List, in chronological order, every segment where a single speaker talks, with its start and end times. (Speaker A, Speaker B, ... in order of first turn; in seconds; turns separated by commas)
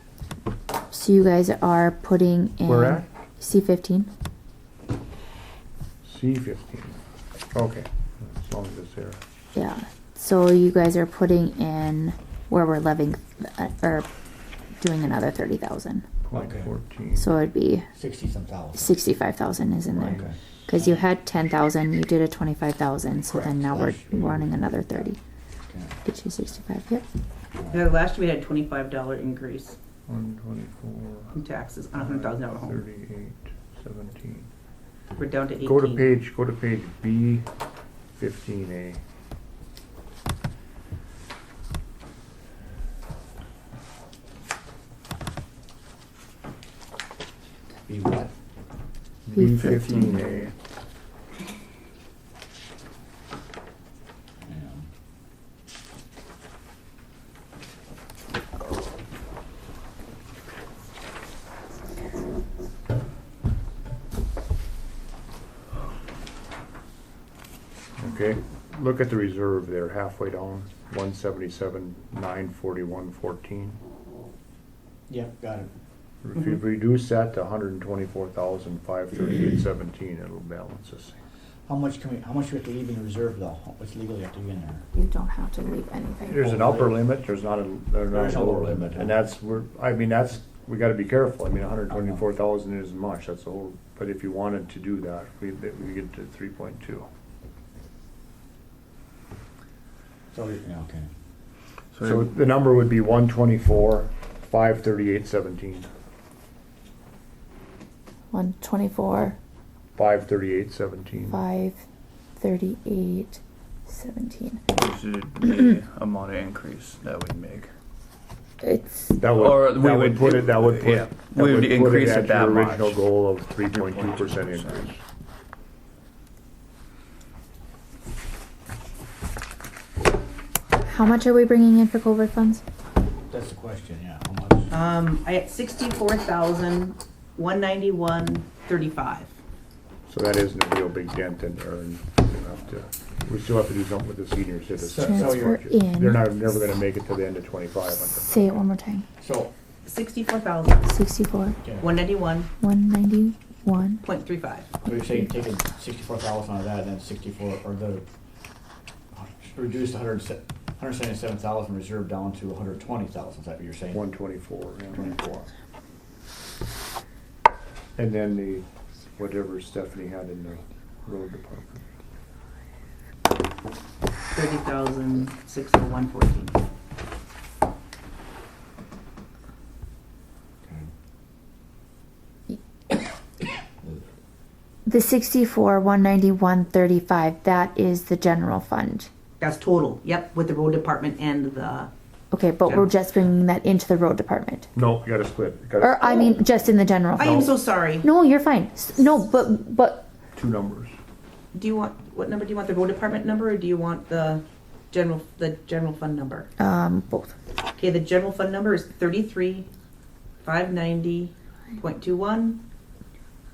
Speaker A: 0.9-4.1, Speaker B: 2.7-3.1, Speaker B: 6.0-7.0, Speaker B: 7.5-9.2, Speaker A: 9.6-14.1, Speaker A: 14.8-16.1, Speaker B: 16.2-17.4, Speaker C: 16.3-16.7, Speaker A: 17.2-17.9, Speaker C: 17.9-19.0, Speaker A: 18.8-25.2, Speaker B: 19.9-20.7, Speaker C: 20.1-21.1, Speaker C: 23.3-25.1, Speaker C: 25.7-26.0, Speaker A: 26.0-27.1, Speaker C: 27.6-27.8, Speaker D: 27.7-29.8, Speaker B: 30.1-31.4, Speaker D: 31.3-32.8, Speaker B: 31.9-34.5, Speaker D: 35.2-36.1, Speaker B: 35.6-37.5, Speaker B: 38.1-39.0, Speaker C: 47.9-48.3, Speaker B: 49.3-50.5, Speaker A: 49.4-50.1, Speaker C: 54.4-54.9, Speaker B: 68.0-73.8, Speaker C: 75.1-75.7, Speaker B: 76.2-81.2, Speaker C: 81.7-84.9, Speaker A: 84.9-86.6, Speaker B: 86.2-97.1, Speaker C: 86.4-87.0, Speaker C: 88.1-89.1, Speaker C: 91.9-92.2, Speaker C: 100.3-101.1, Speaker E: 102.0-102.2, Speaker B: 102.0-105.9, Speaker A: 108.3-109.4, Speaker B: 110.0-111.4, Speaker A: 111.3-111.8, Speaker A: 112.4-114.6, Speaker E: 114.7-117.7, Speaker A: 118.6-119.1, Speaker B: 119.2-125.0, Speaker E: 119.3-123.0, Speaker E: 123.7-124.9, Speaker A: 130.8-132.6, Speaker C: 133.3-134.7, Speaker D: 134.7-139.3, Speaker B: 140.1-148.4, Speaker A: 144.9-146.3, Speaker C: 144.9-145.6, Speaker A: 148.2-149.1, Speaker C: 149.2-149.5, Speaker D: 149.8-150.9, Speaker A: 150.8-151.6, Speaker C: 151.6-151.9, Speaker D: 151.8-152.5, Speaker A: 152.6-154.1, Speaker D: 154.0-154.7, Speaker C: 154.8-158.1, Speaker C: 159.1-164.0, Speaker B: 163.9-165.1, Speaker C: 164.9-165.5, Speaker B: 168.0-168.7, Speaker B: 169.2-171.8, Speaker D: 174.3-176.6, Speaker C: 180.6-180.9, Speaker A: 184.9-189.1, Speaker D: 189.4-191.9, Speaker A: 192.3-194.7, Speaker B: 194.8-196.4, Speaker A: 195.8-197.5, Speaker D: 197.2-198.1, Speaker B: 197.2-197.5, Speaker A: 198.0-200.1, Speaker B: 200.3-201.0, Speaker D: 201.5-206.5, Speaker A: 206.6-207.4, Speaker D: 207.8-209.7, Speaker D: 210.4-212.6